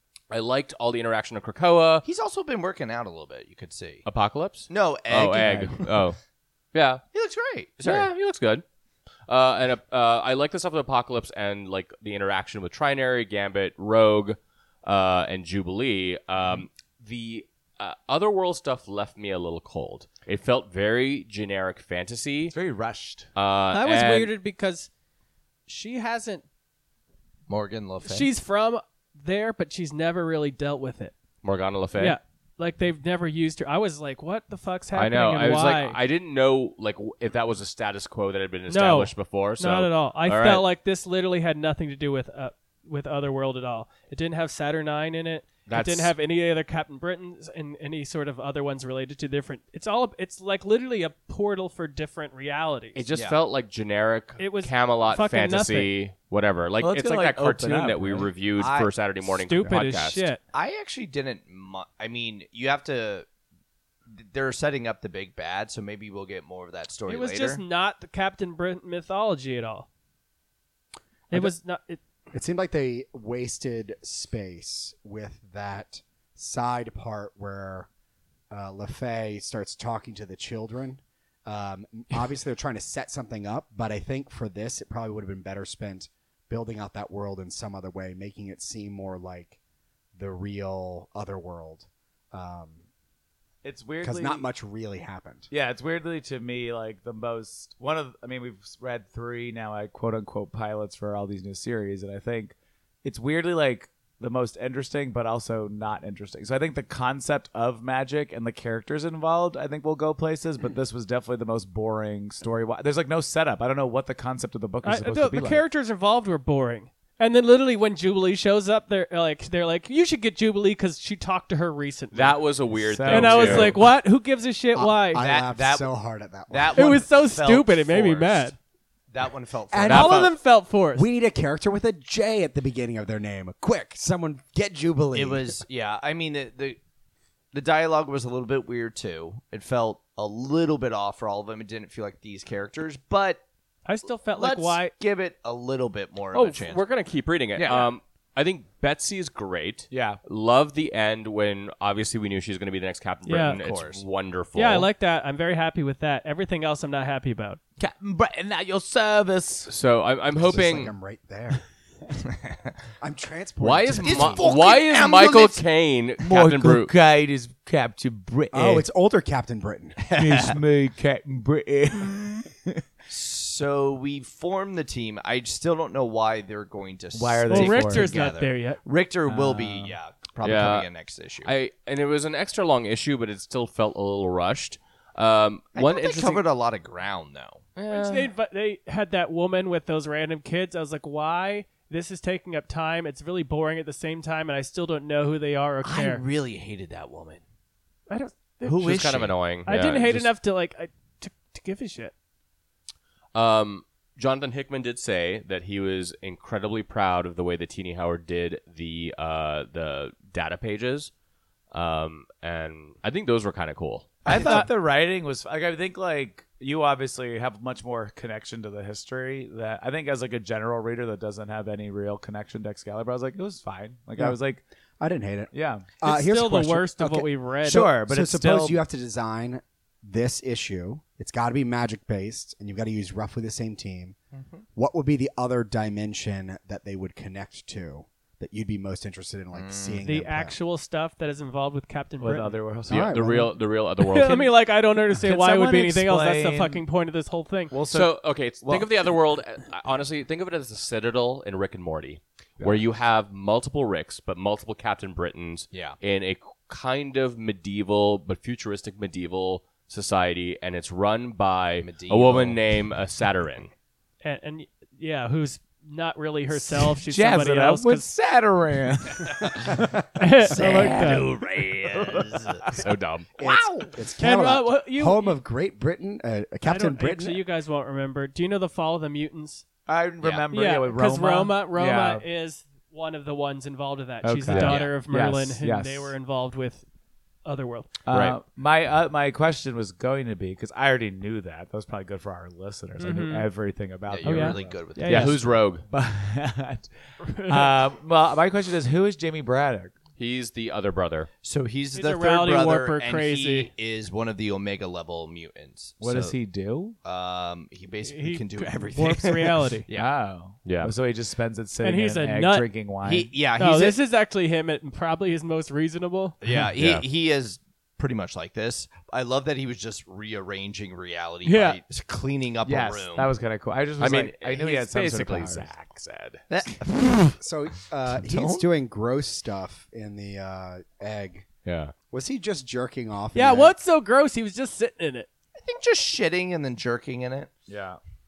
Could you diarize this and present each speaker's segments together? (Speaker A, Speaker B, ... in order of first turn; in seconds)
Speaker A: 0.3-2.0, 4.0-6.2, 6.7-7.0, 7.8-8.6, 9.3-22.5, 23.3-24.3, 31.4-32.2, 34.9-40.6, 45.7-46.1, 52.9-60.3, 122.1-123.8, 146.3-154.9, 159.7-160.9, 163.6-166.9, 180.4-180.9, 181.4-186.4, 187.8-188.3, 198.8-200.3, 203.3-211.1, 211.7-214.6, 242.9-244.5, 247.9-263.7, 272.8-273.3, 288.1-288.4, 295.0-295.8, 300.2-301.3, 310.6-310.9, 316.8-317.0, 324.0-326.4, 331.6-331.9
Speaker B: 2.0-4.0, 4.7-5.9, 7.1-8.1, 27.5-28.3, 58.6-58.9, 60.5-63.2, 64.1-67.6, 125.2-125.9, 126.5-128.4, 129.1-130.3, 135.1-136.8, 137.5-143.4, 144.3-146.8, 153.6-154.0, 162.3-162.7, 164.0-165.6, 170.0-170.6, 173.1-181.5, 185.7-187.6, 195.8-197.4, 198.6-199.3, 234.3-234.6, 239.5-240.0, 255.7-256.0, 261.8-262.6, 270.4-272.8, 273.4-273.9, 284.5-284.9, 294.1-295.4, 301.4-306.4, 307.0-310.1, 313.0-314.0, 316.4-323.3, 326.5-327.4, 328.1-328.7, 335.6-337.5
Speaker C: 5.4-5.7, 22.5-23.3, 56.8-58.3, 93.6-94.5, 95.5-115.6, 122.8-123.8, 147.6-147.9, 149.9-150.2, 157.8-159.7, 166.2-168.8, 170.1-172.8, 177.1-178.2, 179.3-179.9, 214.2-224.6, 225.5-225.9, 227.6-228.8, 242.2-243.2, 245.2-246.8, 247.7-248.9, 266.7-272.8, 279.9-282.2, 284.2-286.1, 288.1-299.9, 306.0-306.9, 309.9-313.3, 322.6-325.7, 337.7-338.0
Speaker D: 23.7-24.9, 25.7-26.4, 28.0-31.1, 32.0-36.0, 38.7-53.0, 54.4-55.9, 59.4-60.4, 67.1-69.9, 71.3-72.0, 114.8-122.4, 123.0-125.2, 126.7-128.6, 129.9-131.1, 143.8-144.9, 153.2-153.6, 154.5-157.6, 177.5-178.8, 187.9-196.2, 198.1-198.8, 199.6-202.1, 214.3-214.7, 226.0-227.9, 240.0-242.8, 244.0-247.8, 264.2-268.1, 270.1-271.3, 274.2-275.4, 276.6-279.6, 280.5-286.8, 287.4-287.9, 293.0-293.5, 294.2-295.3, 297.2-297.8, 301.9-303.7, 308.0-309.9, 311.8-312.7, 313.6-316.4, 321.4-321.8, 333.3-335.3
Speaker E: 72.3-77.9, 78.5-89.6, 90.1-92.8, 94.0-95.5, 124.7-126.8, 129.7-130.3, 130.9-135.6, 160.3-161.6, 163.0-164.5, 168.5-170.0, 225.0-234.2, 234.7-240.6, 242.9-243.5, 273.4-277.4, 327.4-331.5, 332.1-333.7